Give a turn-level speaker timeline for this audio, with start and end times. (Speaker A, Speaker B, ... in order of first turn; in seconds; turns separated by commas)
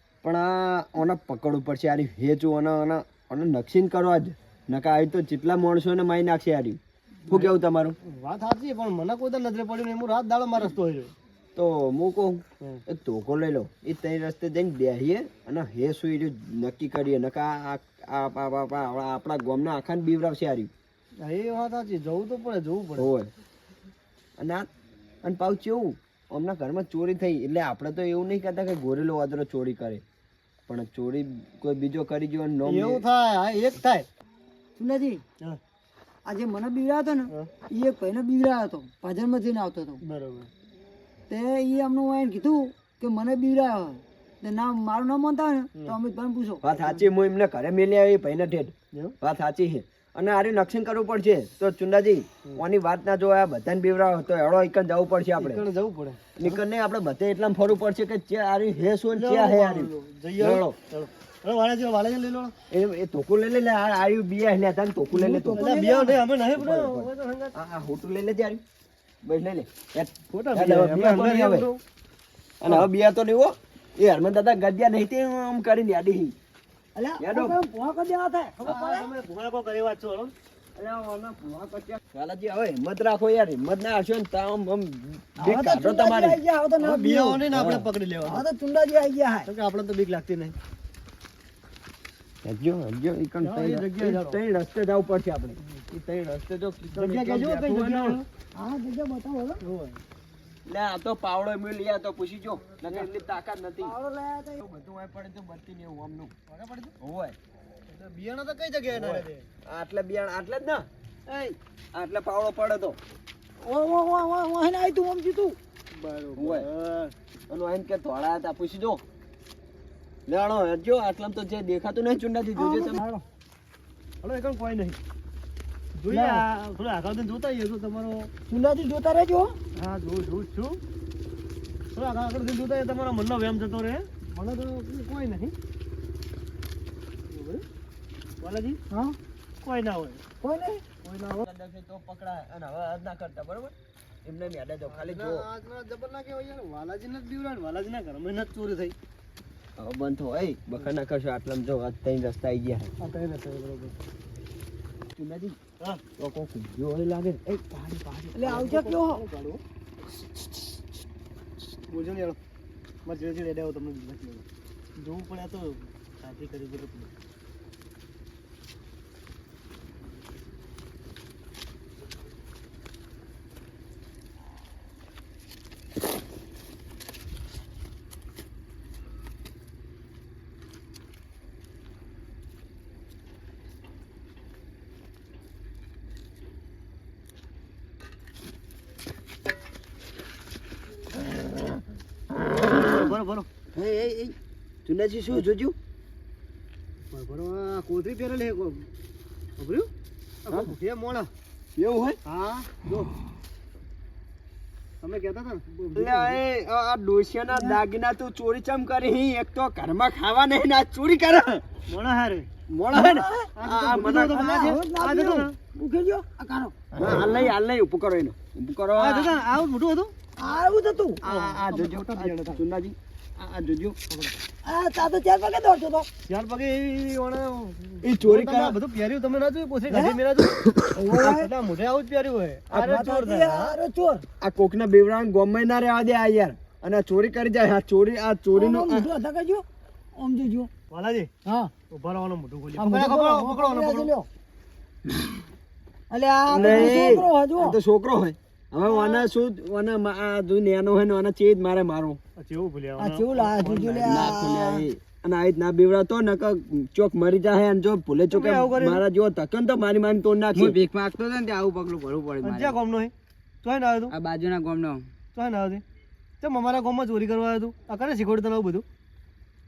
Speaker A: 0.2-8.0, Speaker B: 7.3-11.1, Speaker A: 11.6-20.7, Speaker B: 21.2-23.1, Speaker A: 23.0-23.3, Speaker A: 24.4-24.7, Speaker A: 25.2-30.0, Speaker A: 30.7-33.0, Speaker B: 32.6-34.1, Speaker C: 34.8-35.2, Speaker C: 36.2-40.0, Speaker B: 40.0-40.5, Speaker C: 41.3-46.6, Speaker A: 46.6-55.6, Speaker B: 55.4-56.6, Speaker A: 56.4-60.7, Speaker B: 59.1-62.5, Speaker A: 62.7-65.7, Speaker C: 65.1-66.2, Speaker B: 65.5-67.5, Speaker A: 66.5-68.6, Speaker A: 69.2-71.7, Speaker B: 70.3-71.8, Speaker A: 72.6-76.3, Speaker C: 76.9-79.1, Speaker A: 77.2-77.6, Speaker B: 78.6-80.3, Speaker A: 80.7-86.4, Speaker C: 85.4-87.4, Speaker B: 86.8-88.5, Speaker A: 87.5-87.8, Speaker C: 88.2-89.5, Speaker B: 89.5-90.5, Speaker A: 92.4-98.2, Speaker B: 93.4-94.4, Speaker B: 96.9-98.2, Speaker C: 98.5-99.6, Speaker B: 99.6-100.0, Speaker A: 100.7-103.9, Speaker C: 103.8-104.6, Speaker A: 104.6-106.3, Speaker B: 106.5-106.9, Speaker A: 107.0-107.3, Speaker B: 107.9-109.5, Speaker A: 108.9-113.0, Speaker C: 113.6-115.6, Speaker B: 115.9-117.1, Speaker A: 116.3-116.7, Speaker A: 117.5-119.0, Speaker A: 120.3-123.0, Speaker C: 122.5-123.2, Speaker B: 124.2-125.0, Speaker B: 125.9-128.3, Speaker C: 126.1-126.4, Speaker C: 128.5-129.5, Speaker B: 129.8-130.8, Speaker B: 131.9-135.5, Speaker B: 137.3-137.6, Speaker B: 138.4-138.8, Speaker C: 138.9-139.2, Speaker B: 139.6-140.2, Speaker C: 140.4-140.8, Speaker B: 141.0-141.4, Speaker A: 141.3-143.7, Speaker A: 144.2-145.4, Speaker B: 144.9-148.9, Speaker A: 149.8-152.9, Speaker B: 153.0-153.9, Speaker A: 155.2-155.6, Speaker A: 156.2-158.3, Speaker C: 158.3-159.2, Speaker B: 158.4-159.6, Speaker B: 161.9-162.4, Speaker B: 163.0-164.4, Speaker B: 164.9-167.1, Speaker B: 192.7-193.5, Speaker A: 193.7-194.3, Speaker A: 194.8-195.7, Speaker B: 197.1-198.8, Speaker B: 199.6-199.9, Speaker B: 200.4-201.3, Speaker A: 201.8-202.2, Speaker B: 202.2-203.1, Speaker B: 205.0-206.4, Speaker A: 205.9-211.6, Speaker C: 207.5-207.8, Speaker B: 211.9-212.5, Speaker A: 212.7-214.4, Speaker C: 212.9-213.5, Speaker B: 213.5-215.5, Speaker C: 214.2-216.7, Speaker A: 216.9-219.3, Speaker B: 219.0-220.1, Speaker C: 220.4-221.2, Speaker A: 221.2-224.0, Speaker B: 221.2-222.6, Speaker C: 224.6-226.1, Speaker B: 226.3-230.6, Speaker A: 228.0-228.7, Speaker C: 229.9-230.2, Speaker C: 230.8-231.5, Speaker B: 231.2-233.7, Speaker C: 232.8-234.2, Speaker A: 234.4-239.1, Speaker C: 238.5-239.6, Speaker C: 240.2-240.7, Speaker B: 240.9-241.3, Speaker C: 241.4-241.7, Speaker B: 241.9-244.1, Speaker C: 242.8-244.3, Speaker C: 246.1-247.8, Speaker A: 246.5-252.2, Speaker B: 246.5-247.2, Speaker B: 248.9-249.2, Speaker B: 252.4-254.5, Speaker C: 253.0-254.8, Speaker A: 254.0-260.8, Speaker B: 258.3-259.0, Speaker D: 260.5-262.8, Speaker B: 262.4-263.1, Speaker B: 263.6-264.1, Speaker D: 264.1-265.1, Speaker B: 265.3-265.8, Speaker B: 266.4-268.8